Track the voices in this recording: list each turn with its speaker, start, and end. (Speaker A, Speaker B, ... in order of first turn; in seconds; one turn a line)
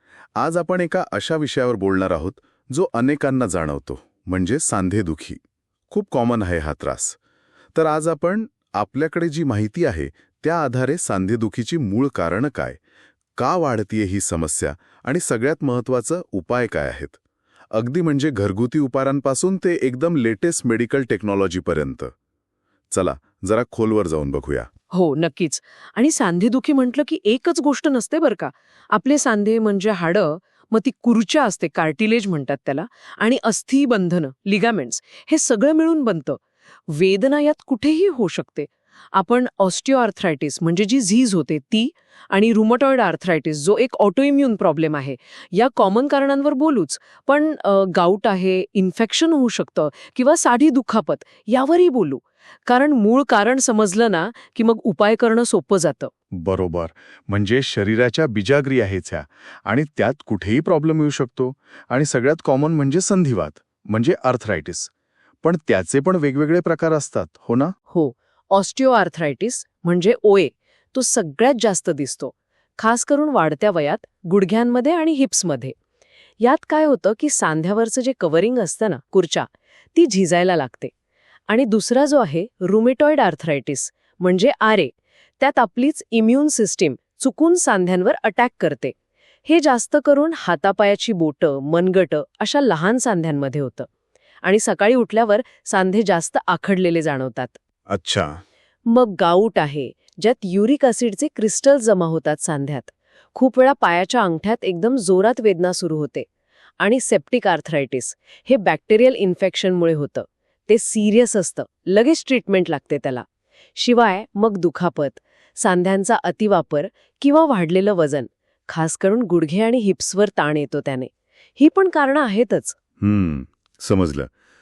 Speaker A: 0.3-7.2
Speaker A: 7.8-12.8
Speaker A: 13.4-17.2
Speaker A: 17.7-22.1
Speaker A: 22.9-24.7
Speaker B: 24.9-56.1
Speaker A: 56.3-64.9
Speaker A: 65.4-67.7
Speaker B: 67.9-75.7
Speaker B: 76.4-80.9
Speaker B: 81.5-88.9
Speaker B: 89.5-93.9
Speaker B: 94.4-97.5
Speaker A: 97.9-98.4
Speaker B: 98.8-106.3
Speaker B: 106.8-113.2
Speaker B: 113.8-122.8
Speaker A: 123.0-124.3